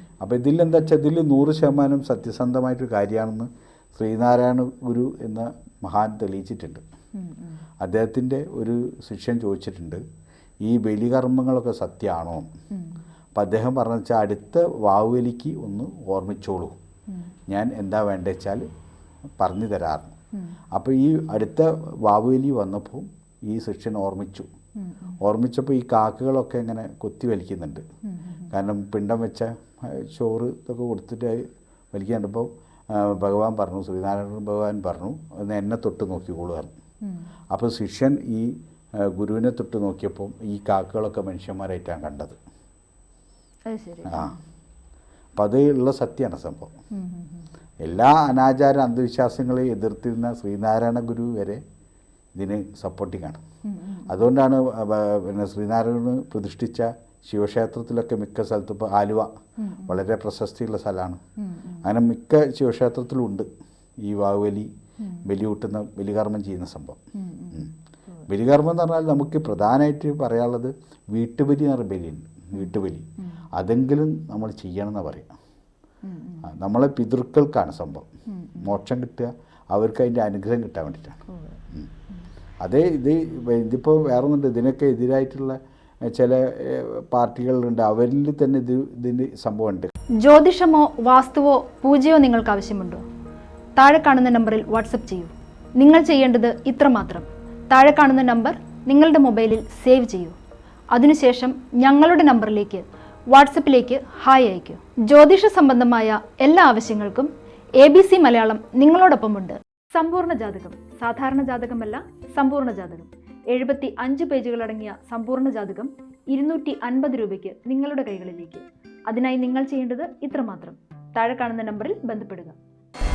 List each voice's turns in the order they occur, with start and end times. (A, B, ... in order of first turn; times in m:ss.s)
0:00.2-0:06.8 A
0:07.2-0:07.6 B
0:07.8-0:10.0 A
0:10.6-0:12.5 A
0:13.3-0:16.8 A
0:17.5-0:18.6 A
0:19.4-0:20.2 A
0:20.7-0:24.5 A
0:25.2-0:27.8 A
0:28.5-0:36.7 A
0:37.5-0:42.4 A
0:43.7-0:44.3 B
0:44.0-0:44.4 A
0:45.4-0:46.7 A
0:47.0-0:47.4 B
0:47.8-0:51.6 A
0:52.4-0:53.4 A
0:53.7-0:54.1 B
0:54.1-0:59.3 A
0:59.8-1:01.2 A
1:01.8-1:03.5 A
1:04.0-1:04.7 A
1:05.2-1:07.0 A
1:07.2-1:07.6 B
1:08.2-1:15.3 A
1:16.1-1:16.4 B
1:16.4-1:18.1 A
1:18.6-1:21.9 A
1:22.6-1:29.9 A
1:30.2-1:33.0 B
1:33.8-1:40.4 B
1:40.9-2:02.6 B